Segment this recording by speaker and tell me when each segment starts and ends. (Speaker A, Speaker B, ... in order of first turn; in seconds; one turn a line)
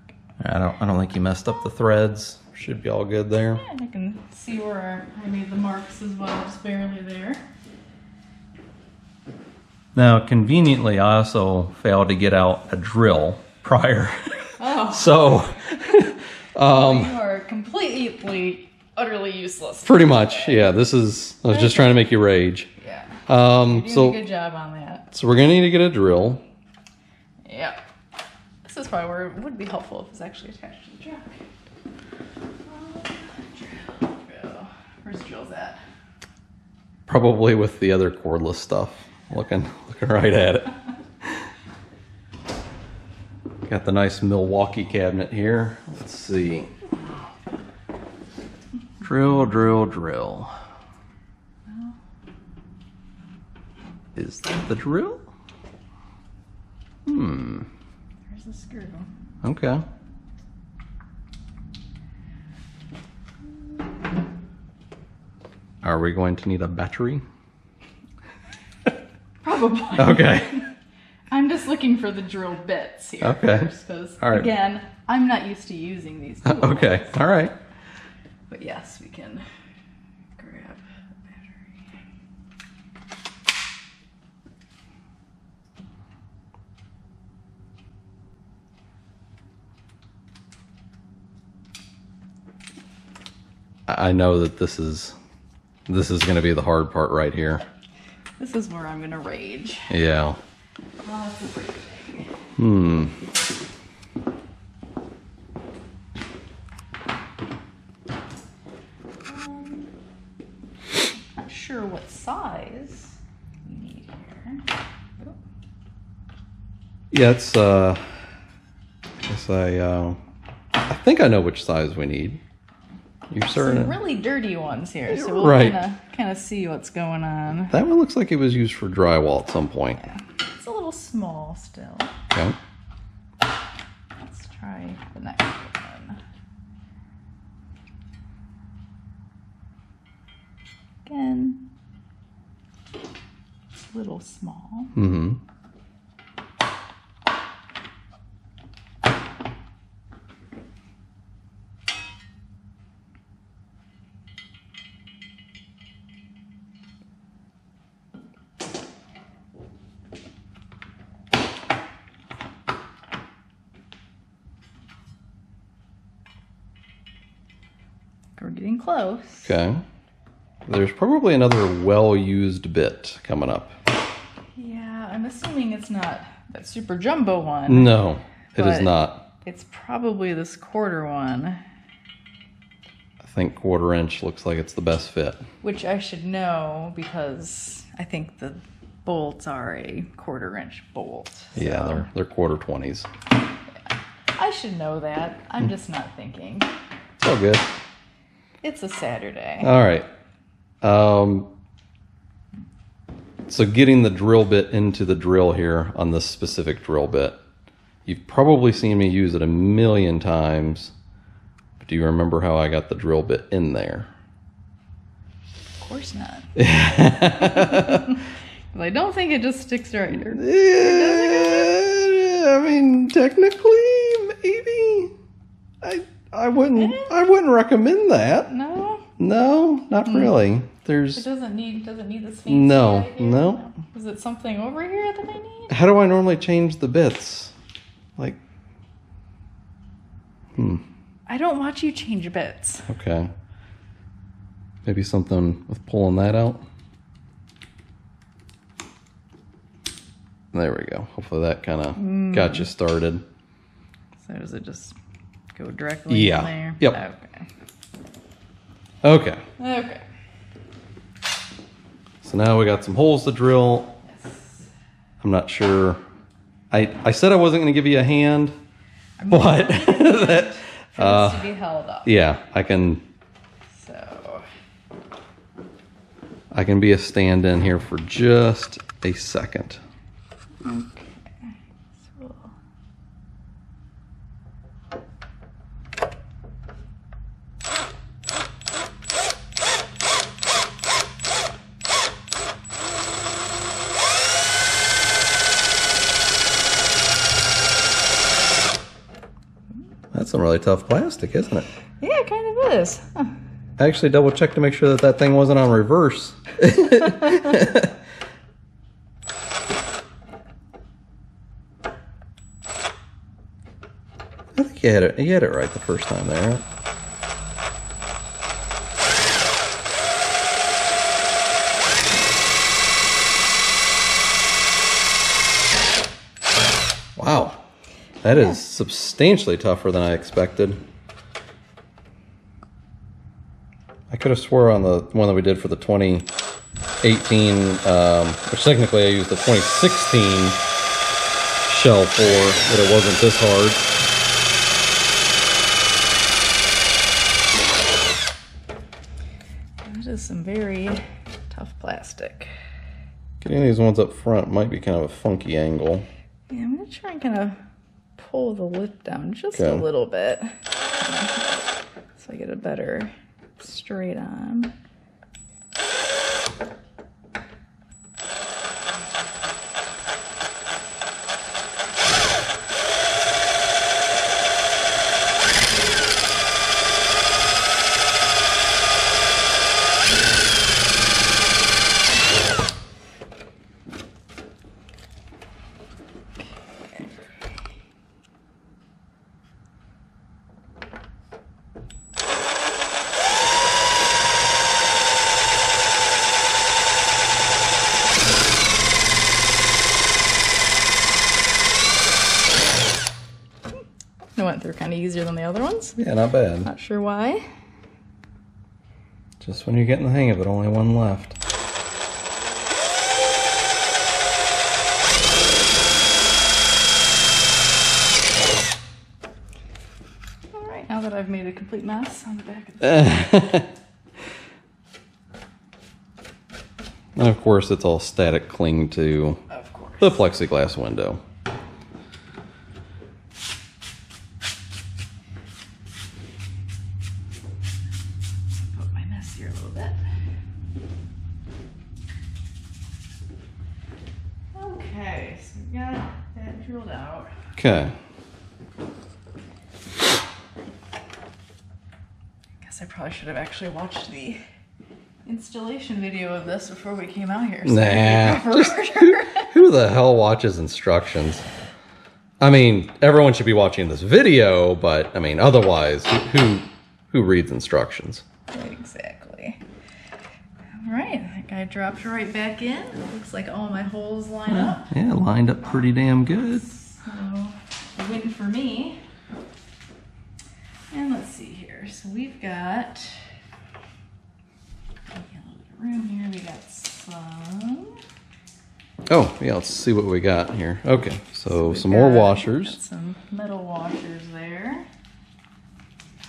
Speaker A: 0.4-3.6
Speaker B: 3.5-7.5
Speaker A: 9.9-17.1
Speaker B: 14.6-16.0
Speaker B: 16.6-20.7
Speaker A: 19.8-22.7
Speaker B: 21.5-22.0
Speaker B: 22.8-25.1
Speaker A: 23.3-24.2
Speaker A: 25.1-26.4
Speaker B: 27.4-27.8
Speaker B: 28.6-31.4
Speaker B: 32.6-35.8
Speaker A: 37.1-41.5
Speaker A: 43.7-46.7
Speaker B: 47.0-47.3
Speaker A: 49.0-50.5
Speaker B: 51.7-52.0
Speaker A: 54.1-55.3
Speaker A: 57.0-57.7
Speaker B: 58.3-59.1
Speaker A: 59.4-59.8
Speaker A: 65.8-67.2
Speaker B: 69.4-70.7
Speaker A: 70.0-70.7
Speaker B: 71.3-77.2
Speaker A: 73.2-74.5
Speaker A: 76.4-77.5
Speaker B: 78.5-79.4
Speaker B: 80.4-81.9
Speaker A: 93.9-95.1
Speaker A: 95.9-97.6
Speaker B: 98.4-99.9
Speaker A: 99.9-100.4
Speaker B: 101.0-102.3
Speaker A: 102.6-103.2
Speaker B: 109.2-109.9
Speaker B: 111.3-114.7
Speaker A: 117.1-118.0
Speaker A: 119.2-120.2
Speaker A: 120.9-122.4
Speaker A: 123.3-123.9
Speaker B: 123.5-127.7
Speaker A: 125.1-125.8
Speaker A: 127.7-130.1
Speaker B: 130.5-132.1
Speaker A: 132.3-132.6
Speaker B: 134.2-136.2
Speaker B: 141.0-141.7
Speaker B: 143.9-144.9
Speaker A: 144.9-145.4
Speaker B: 168.3-169.5
Speaker A: 169.4-169.8
Speaker A: 170.7-173.7
Speaker B: 174.6-177.9
Speaker A: 177.7-179.2
Speaker B: 178.5-178.9
Speaker B: 179.4-181.6
Speaker A: 183.2-185.5
Speaker B: 185.6-192.1
Speaker A: 191.6-193.1
Speaker B: 193.7-196.7
Speaker A: 197.2-197.7
Speaker B: 198.6-199.7
Speaker A: 199.6-200.1
Speaker A: 200.8-201.5
Speaker A: 203.5-207.4
Speaker A: 208.1-210.9
Speaker A: 211.8-214.1
Speaker B: 215.8-216.5
Speaker A: 216.6-218.2
Speaker B: 217.4-218.2
Speaker B: 218.7-221.8
Speaker A: 220.2-225.1
Speaker A: 225.8-228.5
Speaker B: 226.8-227.1
Speaker B: 228.5-229.1
Speaker A: 229.2-231.2
Speaker B: 230.0-230.3
Speaker B: 231.1-235.7
Speaker A: 232.5-233.7
Speaker A: 235.7-237.5
Speaker A: 240.6-240.8
Speaker B: 241.3-242.9
Speaker A: 242.9-243.3
Speaker A: 244.8-246.6
Speaker A: 250.5-253.2
Speaker B: 251.9-252.7
Speaker B: 254.2-255.0
Speaker B: 255.5-257.5
Speaker A: 256.1-257.0
Speaker A: 259.0-259.4
Speaker B: 259.6-260.0
Speaker A: 262.2-264.0
Speaker B: 264.0-264.7
Speaker A: 265.2-266.0
Speaker A: 266.7-268.5
Speaker B: 269.2-272.1
Speaker A: 269.3-271.4
Speaker A: 272.0-273.0
Speaker B: 273.7-274.5
Speaker A: 276.5-279.8
Speaker B: 280.6-282.5
Speaker A: 300.1-301.7
Speaker B: 302.0-303.4
Speaker A: 303.8-307.9
Speaker B: 307.0-307.4
Speaker A: 314.6-316.6
Speaker A: 327.2-327.6
Speaker A: 328.2-330.8
Speaker B: 328.3-328.6
Speaker A: 334.1-336.3
Speaker A: 337.0-340.6
Speaker A: 341.7-343.9
Speaker B: 349.8-352.5
Speaker A: 353.4-356.1
Speaker B: 356.5-357.6
Speaker B: 358.2-364.7
Speaker A: 359.5-359.8
Speaker B: 386.7-387.3
Speaker B: 404.3-406.0
Speaker A: 406.0-406.7
Speaker B: 406.6-407.5
Speaker A: 409.4-411.4
Speaker B: 420.5-423.3
Speaker A: 422.8-423.7
Speaker A: 427.1-429.4
Speaker B: 429.5-430.2
Speaker A: 430.0-431.2
Speaker B: 438.6-440.1
Speaker B: 444.5-447.3
Speaker A: 447.6-447.9
Speaker B: 452.6-454.4
Speaker B: 455.2-459.5
Speaker A: 457.6-461.4
Speaker A: 462.4-468.2
Speaker B: 468.5-469.6
Speaker B: 470.7-474.9
Speaker A: 474.5-476.6
Speaker B: 476.5-479.0
Speaker B: 480.9-483.3
Speaker B: 485.1-488.0
Speaker A: 489.1-492.8
Speaker B: 491.5-494.9